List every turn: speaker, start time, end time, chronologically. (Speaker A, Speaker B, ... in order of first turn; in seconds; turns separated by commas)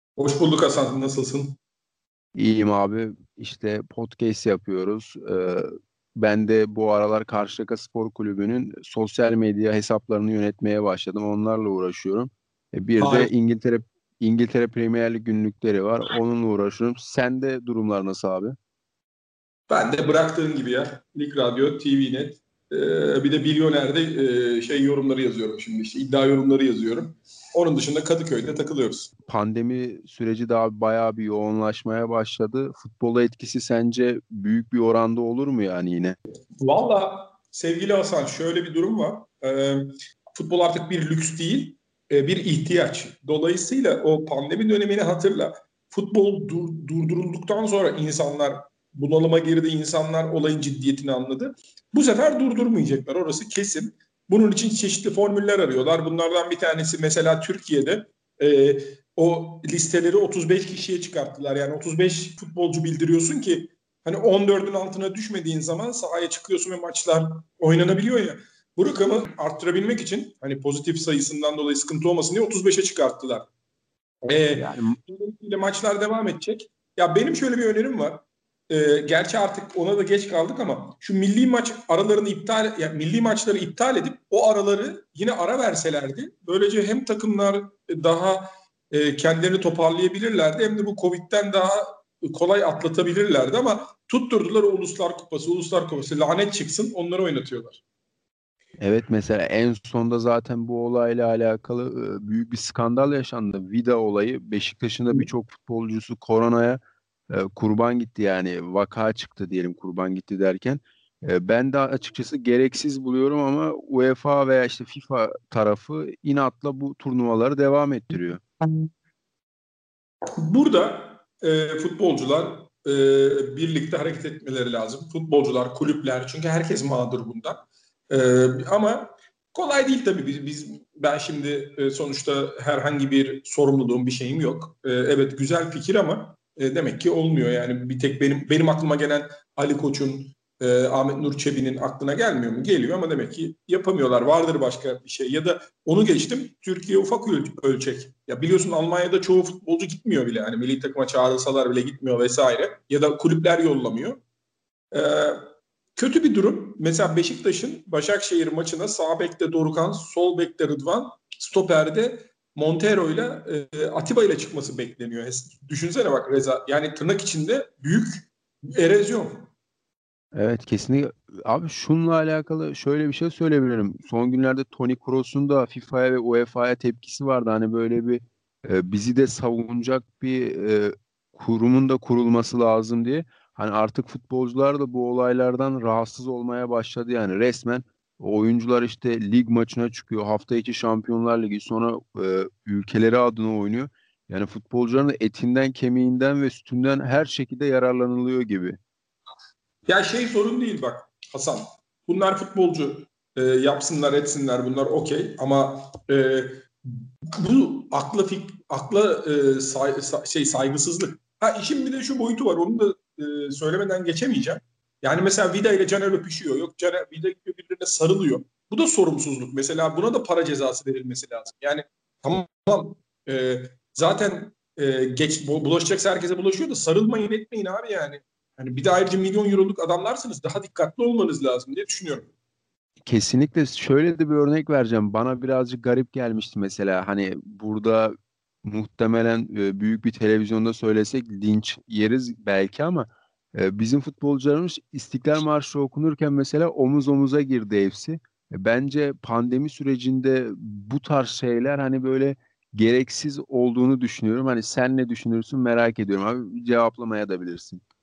Speaker A: 0.2-1.6, Speaker B: 2.3-18.5, Speaker A: 13.0-13.3, Speaker A: 19.7-29.1, Speaker B: 29.3-36.2, Speaker A: 36.6-73.5, Speaker A: 74.2-97.8, Speaker B: 74.6-75.0, Speaker B: 98.8-118.4, Speaker A: 120.4-154.2, Speaker A: 154.9-169.5, Speaker B: 170.3-198.8, Speaker A: 199.9-232.3, Speaker B: 233.0-257.8